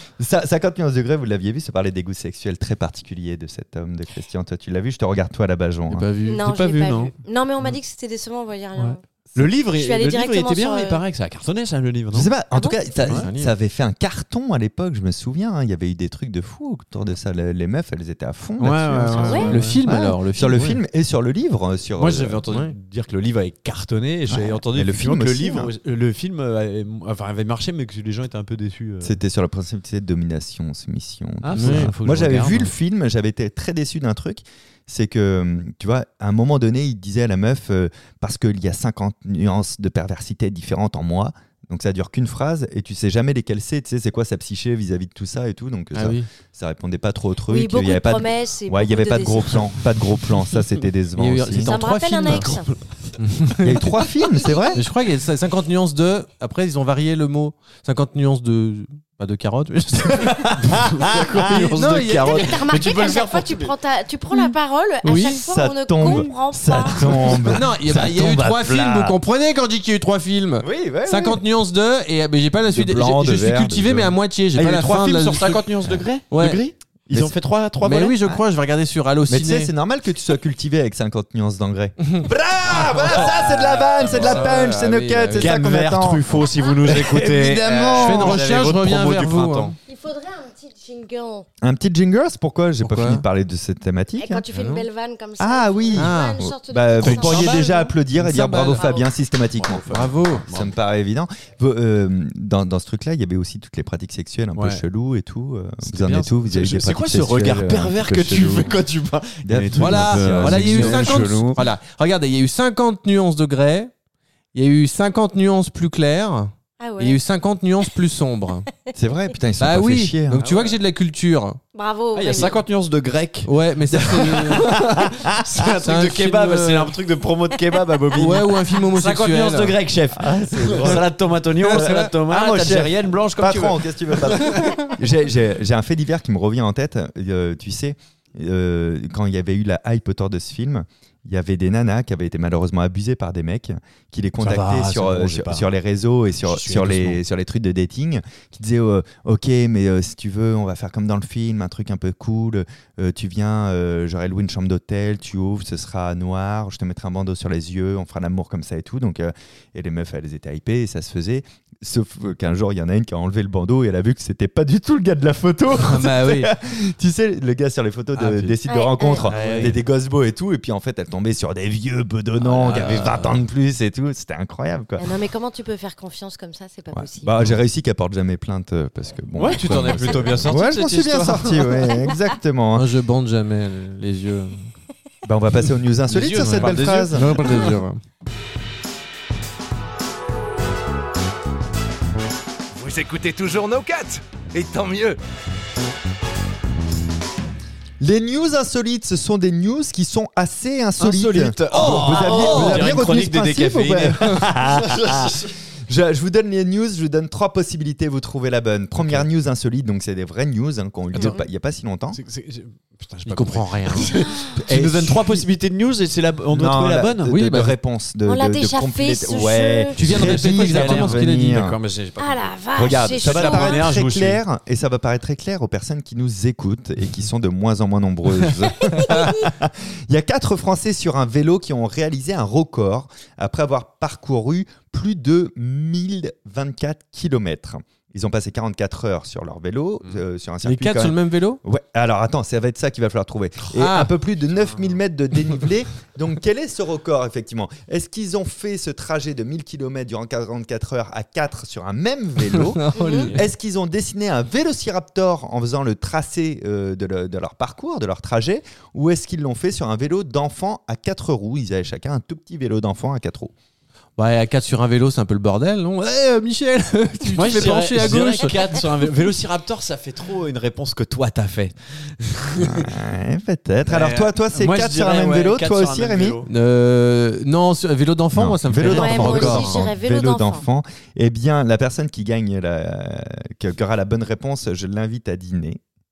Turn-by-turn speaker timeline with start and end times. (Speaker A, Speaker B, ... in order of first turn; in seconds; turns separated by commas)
Speaker A: 0.2-6.0, Speaker B: 5.9-6.5, Speaker C: 6.2-9.0, Speaker D: 6.3-7.1, Speaker D: 8.8-12.3, Speaker C: 9.8-11.0, Speaker A: 12.1-22.4, Speaker C: 12.5-12.8, Speaker B: 13.1-13.5, Speaker D: 18.6-19.8, Speaker B: 19.2-20.8, Speaker C: 19.2-19.6, Speaker D: 21.9-29.2, Speaker B: 22.5-22.7, Speaker A: 24.3-25.7, Speaker A: 29.0-51.7, Speaker D: 31.4-32.7, Speaker B: 31.5-31.9, Speaker B: 45.9-46.3, Speaker C: 47.5-49.7, Speaker B: 51.1-52.6, Speaker C: 51.6-52.7, Speaker B: 53.2-53.9, Speaker A: 53.6-54.8, Speaker C: 54.4-54.8, Speaker B: 54.7-60.8, Speaker A: 60.1-61.7, Speaker D: 60.7-63.7, Speaker B: 61.4-62.6, Speaker C: 62.2-67.0, Speaker B: 65.0-65.4, Speaker A: 65.2-69.2, Speaker B: 67.2-75.6, Speaker A: 70.6-71.4, Speaker A: 72.7-74.2, Speaker D: 74.5-78.4, Speaker B: 76.3-76.6, Speaker B: 77.8-79.7, Speaker A: 79.3-88.4, Speaker B: 82.0-85.6, Speaker D: 82.7-84.6, Speaker D: 85.3-89.7, Speaker B: 87.9-89.8, Speaker C: 89.9-91.5, Speaker A: 91.6-94.5, Speaker B: 92.8-93.2, Speaker C: 94.2-97.7, Speaker B: 94.5-94.9, Speaker A: 95.4-99.9, Speaker B: 95.9-96.4, Speaker D: 97.0-98.0, Speaker B: 98.2-98.8, Speaker C: 98.7-99.1, Speaker D: 99.6-100.7, Speaker B: 99.9-100.5, Speaker A: 100.5-108.8, Speaker D: 104.5-104.8, Speaker D: 105.8-111.6, Speaker A: 109.4-111.6, Speaker B: 109.7-113.9, Speaker B: 114.5-118.6, Speaker C: 116.8-117.2, Speaker A: 118.9-120.5, Speaker B: 119.6-121.6, Speaker D: 120.4-120.8, Speaker C: 121.7-122.6, Speaker D: 122.1-134.7, Speaker B: 123.4-124.9, Speaker A: 124.6-125.1, Speaker B: 125.8-126.9, Speaker B: 128.1-129.8, Speaker A: 130.1-131.1, Speaker B: 131.6-132.1, Speaker A: 131.7-175.1, Speaker D: 144.4-145.7, Speaker D: 146.4-147.2, Speaker B: 165.8-166.5, Speaker D: 168.1-168.6, Speaker C: 168.7-169.2, Speaker D: 169.3-169.8, Speaker B: 169.3-169.7, Speaker D: 172.4-173.2, Speaker B: 172.5-173.3, Speaker C: 175.0-177.3, Speaker A: 176.9-182.9, Speaker D: 179.4-182.0, Speaker B: 182.7-184.7, Speaker A: 185.2-187.6, Speaker D: 186.1-187.8, Speaker B: 186.4-188.0, Speaker E: 192.7-195.2, Speaker A: 198.0-212.2, Speaker D: 201.0-205.5, Speaker B: 201.7-203.0, Speaker D: 211.1-211.4, Speaker C: 211.2-211.4, Speaker D: 212.1-217.3, Speaker B: 213.2-214.1, Speaker C: 214.1-214.5, Speaker A: 214.6-215.5, Speaker A: 216.5-221.8, Speaker B: 217.3-217.7, Speaker C: 218.2-219.9, Speaker B: 220.0-221.6, Speaker D: 220.0-224.4, Speaker C: 222.2-223.8, Speaker A: 222.8-263.5, Speaker C: 228.9-229.4, Speaker B: 240.6-241.6, Speaker B: 243.7-244.1, Speaker D: 244.5-245.0, Speaker B: 252.5-253.3, Speaker C: 252.9-253.3, Speaker D: 253.1-253.5, Speaker B: 264.2-268.8, Speaker D: 267.3-272.9, Speaker C: 268.2-268.5, Speaker A: 272.6-276.4, Speaker D: 273.9-276.5, Speaker B: 276.5-279.9, Speaker A: 278.3-285.8, Speaker C: 278.8-280.6